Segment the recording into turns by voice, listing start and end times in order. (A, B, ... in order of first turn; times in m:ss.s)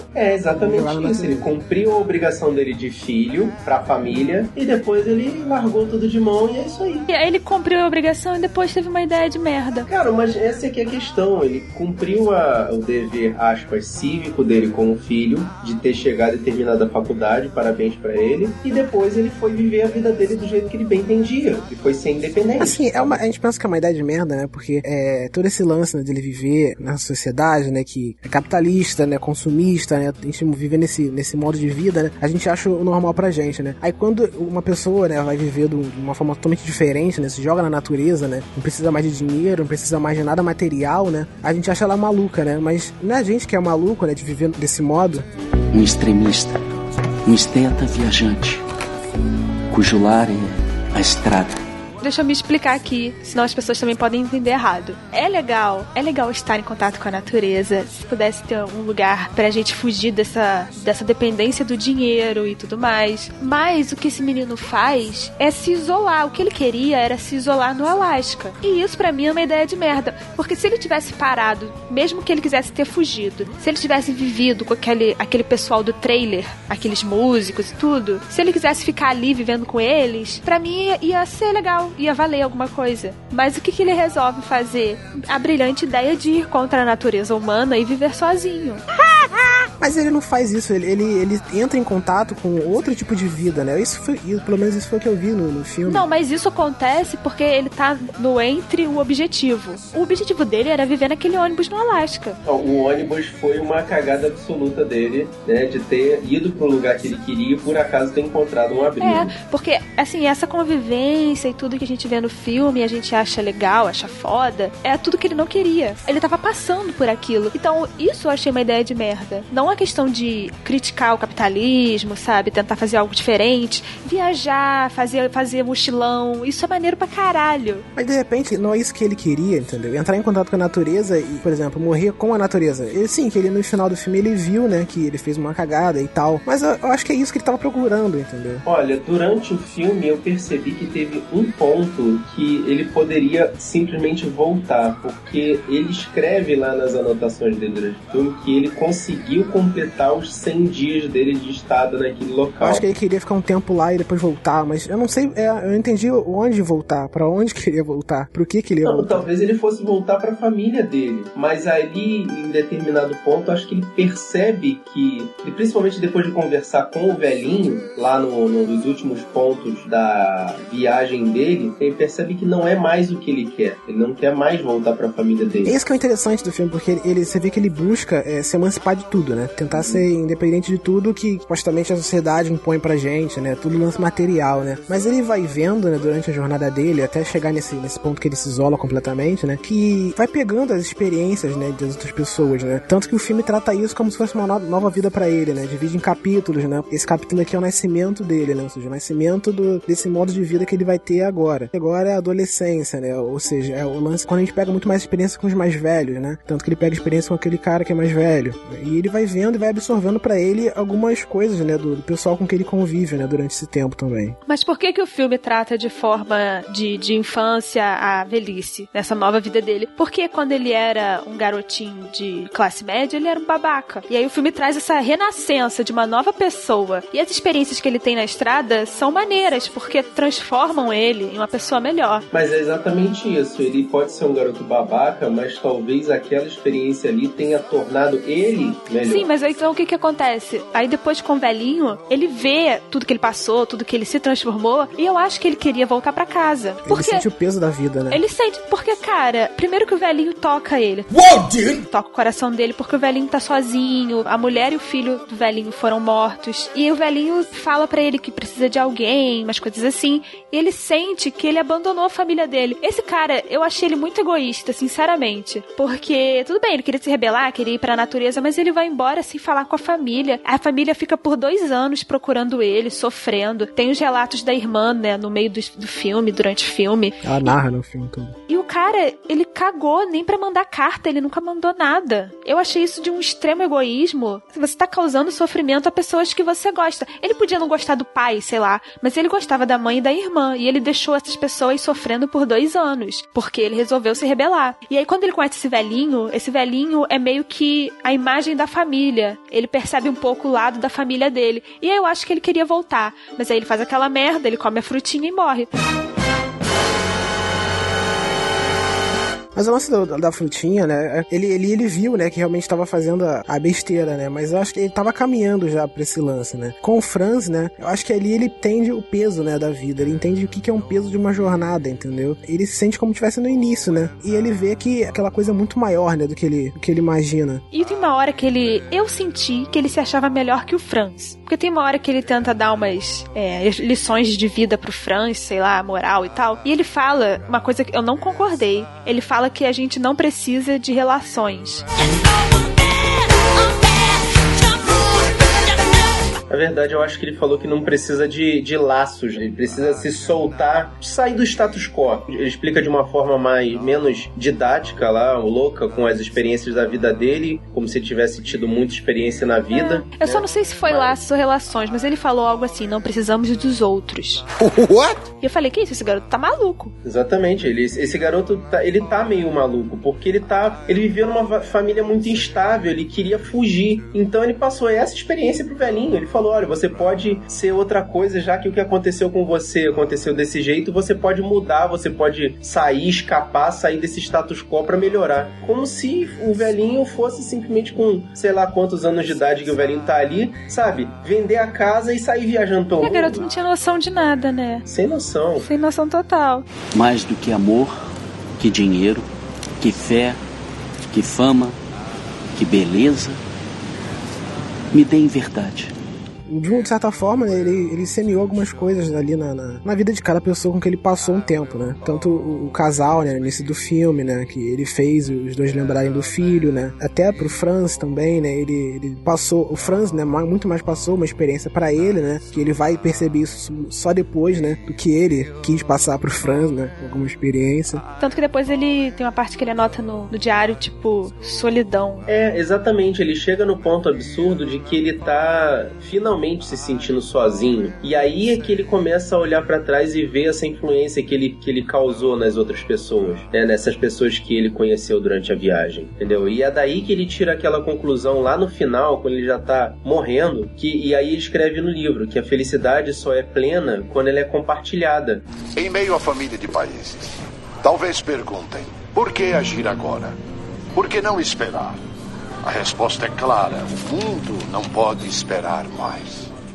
0:00.1-0:07.1 A
0:00.6-0:01.5 B
0:07.1-0:09.9 C
0:09.9-0:23.2 A
0:22.6-0:45.2 B
0:45.7-0:46.6 D
0:47.2-0:48.6 D
0:49.7-0:51.6 D
0:52.0-1:28.8 C
1:29.8-1:36.0 B
1:35.8-1:42.4 C
1:42.4-1:49.3 A
1:49.0-2:07.8 C
2:07.9-2:18.6 B
2:18.6-2:32.8 A
2:32.6-2:39.3 B
2:38.8-2:55.8 A
2:55.6-3:34.4 B
2:59.7-3:00.0 A
3:34.5-3:52.2 C
3:52.3-3:59.3 A
3:59.0-4:07.2 C
4:06.8-4:08.2 B
4:08.1-4:37.5 C
4:37.2-4:38.4 B
4:38.5-5:05.7 C
5:09.5-5:27.6 B
5:27.7-5:41.8 C
5:46.5-6:01.2 A
5:59.7-6:04.4 C
6:05.4-6:06.9 C
6:07.0-6:33.4 A
6:33.0-6:34.8 C
6:34.8-6:35.7 A
6:35.6-6:36.6 C
6:36.9-6:38.1 D
6:38.6-6:39.3 D
6:39.8-6:40.4 D
6:41.1-6:41.8 D
6:42.5-6:43.4 D
6:44.9-6:45.9 D
6:46.4-7:08.0 B
7:08.2-7:12.2 C
7:12.3-7:35.4 A
7:35.8-7:40.4 E
7:40.9-7:42.0 E
7:42.6-7:46.5 E